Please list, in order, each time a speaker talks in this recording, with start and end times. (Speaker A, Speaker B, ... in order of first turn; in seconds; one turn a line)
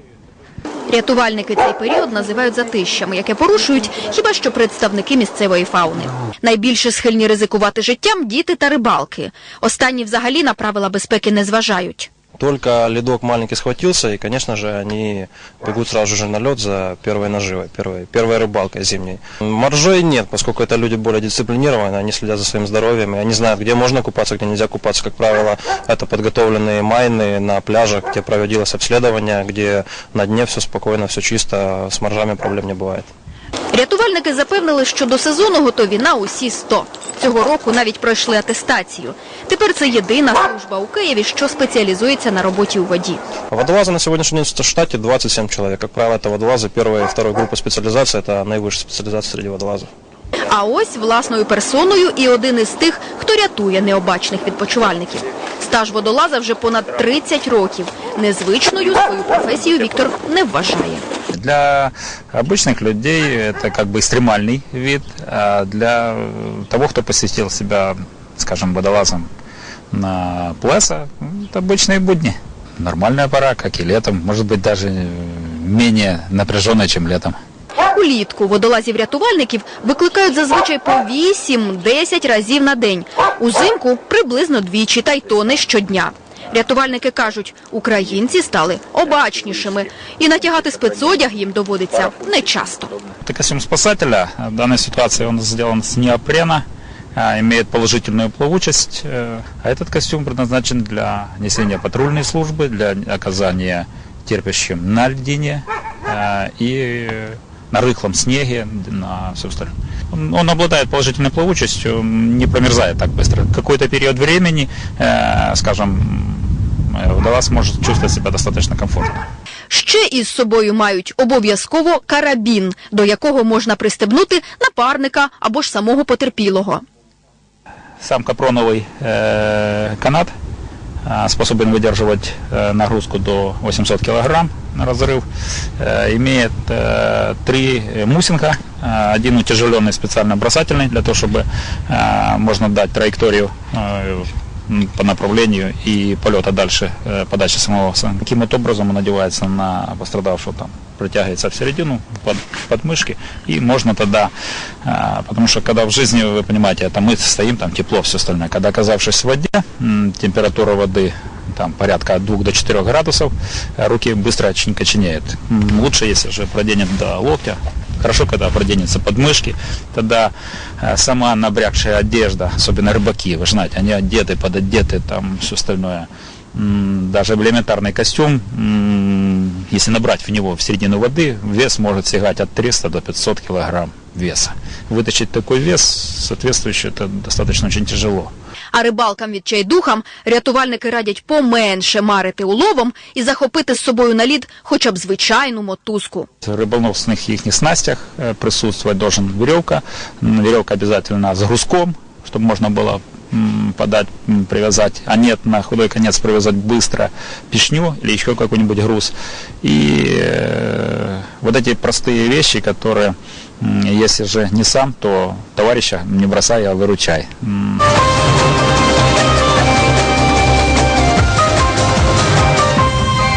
Speaker A: 0.9-12.1
Speaker B: 12.4-33.1
Speaker A: 33.7-43.2
Speaker B: 43.5-49.9
Speaker A: 50.5-61.1
Speaker C: 61.3-69.3
Speaker C: 69.9-77.4
Speaker A: 77.9-93.0
Speaker C: 93.2-119.3
Speaker A: 119.7-126.8
Speaker C: 128.0-130.3
Speaker C: 131.1-135.2
Speaker C: 135.8-154.3
Speaker C: 154.8-188.3
Speaker A: 188.7-196.3
Speaker C: 196.4-217.8